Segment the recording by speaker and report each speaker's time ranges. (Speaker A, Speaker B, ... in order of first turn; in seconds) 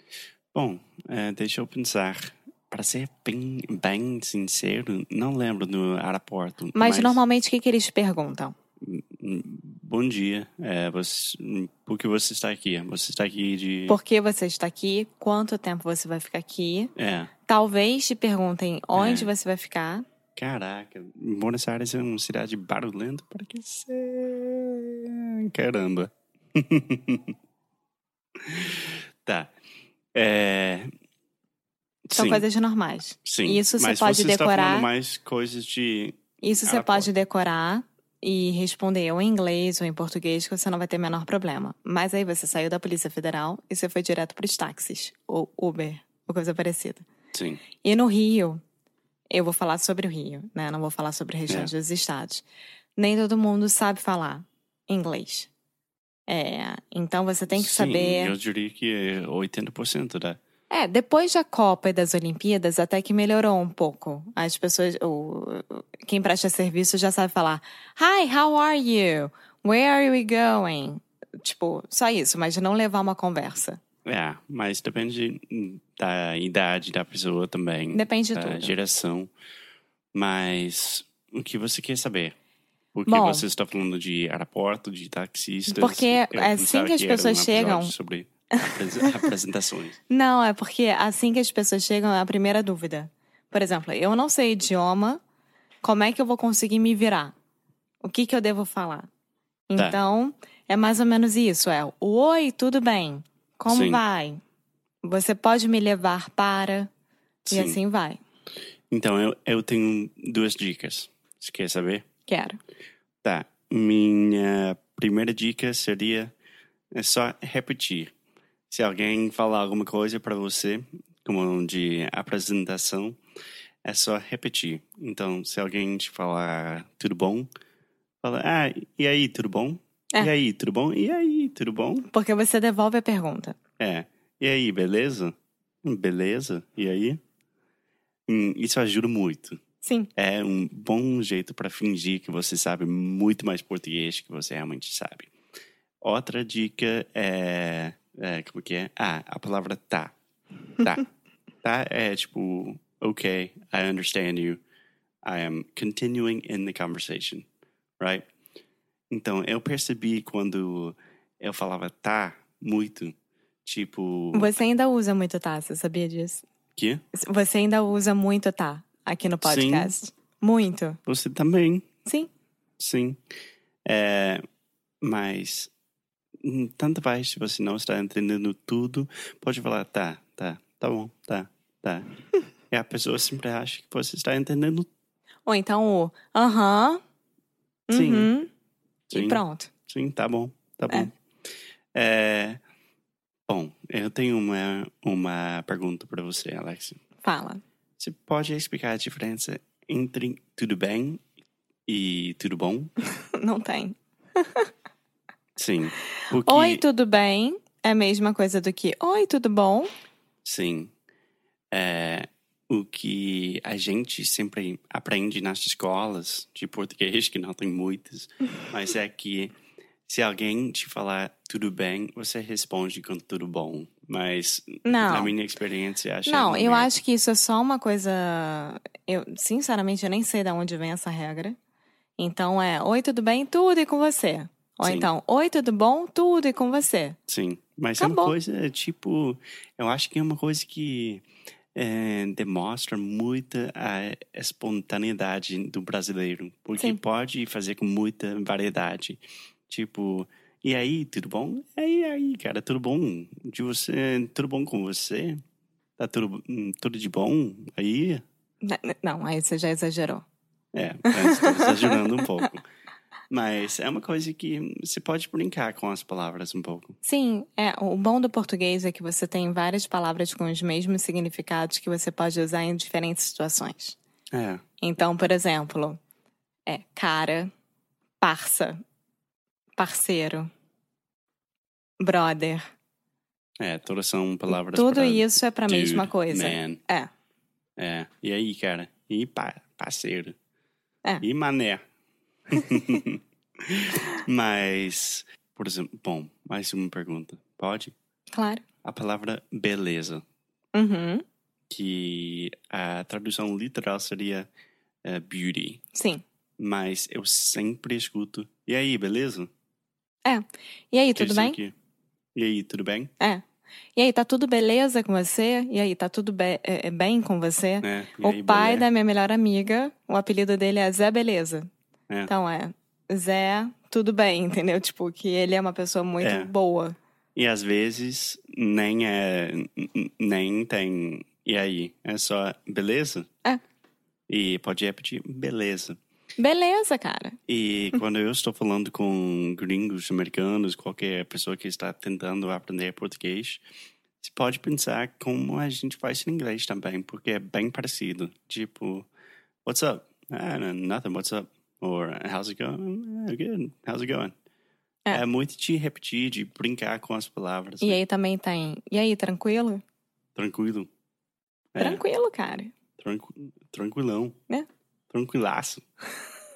Speaker A: 0.5-7.2, 8.8-13.9, 16.9-17.3, 18.9-19.3, 20.4-27.3, 28.4-29.5, 30.1-30.9, 32.1-32.5, 33.2-37.1, 47.3-47.6, 57.5-60.4, 74.0-79.3, 80.1-82.3, 82.9-90.0, 103.7-104.0, 107.5-107.8, 108.9-112.0, 113.2-116.3, 117.0-118.1, 118.7-123.2, 123.8-127.5, 128.2-132.1, 133.8-137.2, 138.3-139.6, 140.2-145.3, 146.0-150.1, 151.6-154.6, 155.2-157.4, 158.0-158.2, 159.1-163.1, 163.6-164.5, 166.8-167.0, 169.4-170.0, 171.1-171.8, 172.8-173.2, 173.8-174.4, 175.0-175.7, 176.4-182.1, 182.7-184.9, 187.9-188.3, 189.1-191.1, 191.9-192.6, 193.5-197.0, 198.0-201.2, 201.9-202.9, 205.6-206.8, 210.4-210.9, 211.7-219.5, 220.1-226.9, 234.8-235.1, 237.3-241.2, 241.8-255.4, 256.0-258.2, 260.7-262.6, 263.3-266.9, 274.3-274.6, 283.6-286.8, 287.8-290.4, 291.2-291.8, 292.5-297.9, 298.8-300.2, 301.7-304.5, 305.0-305.8, 306.6-309.5, 311.1-311.7, 312.3-313.1, 317.8-318.9, 326.2-326.5, 327.4-333.3, 334.3-336.0, 337.5-343.6, 344.2-349.1, 349.6-354.3, 355.1-358.0, 360.4-360.9, 361.7-362.0, 363.0-364.3, 365.1-365.8
Speaker B: 6.7-8.5, 13.9-16.9, 17.5-20.0, 32.1-34.9, 36.4-47.0, 47.8-48.6, 49.3-52.4, 53.0-55.5, 56.3-58.3, 60.7-73.8, 77.9-78.7, 83.1-83.4, 85.7-87.9, 90.1-95.2, 95.8-97.3, 98.0-99.1, 99.7-104.4, 105.0-106.9, 107.5-108.2, 112.3-112.6, 132.1-133.6, 139.8-140.1, 164.3-166.4, 167.1-171.0, 185.5-187.0, 187.9-188.5, 189.1-189.7, 197.2-197.6, 203.4-204.7, 206.4-209.9, 224.8-225.3, 226.2-231.6, 232.2-237.2, 238.0-238.3, 258.6-260.2, 261.1-262.4, 267.0-274.0, 274.8-276.0, 276.7-277.5, 278.2-278.8, 279.8-280.5, 282.0-282.6, 284.5-287.1, 298.3-298.6, 300.7-301.2, 305.9-306.2, 310.2-311.6, 313.9-321.7, 322.3-326.9, 336.4-337.4, 357.8-359.8, 361.8-362.7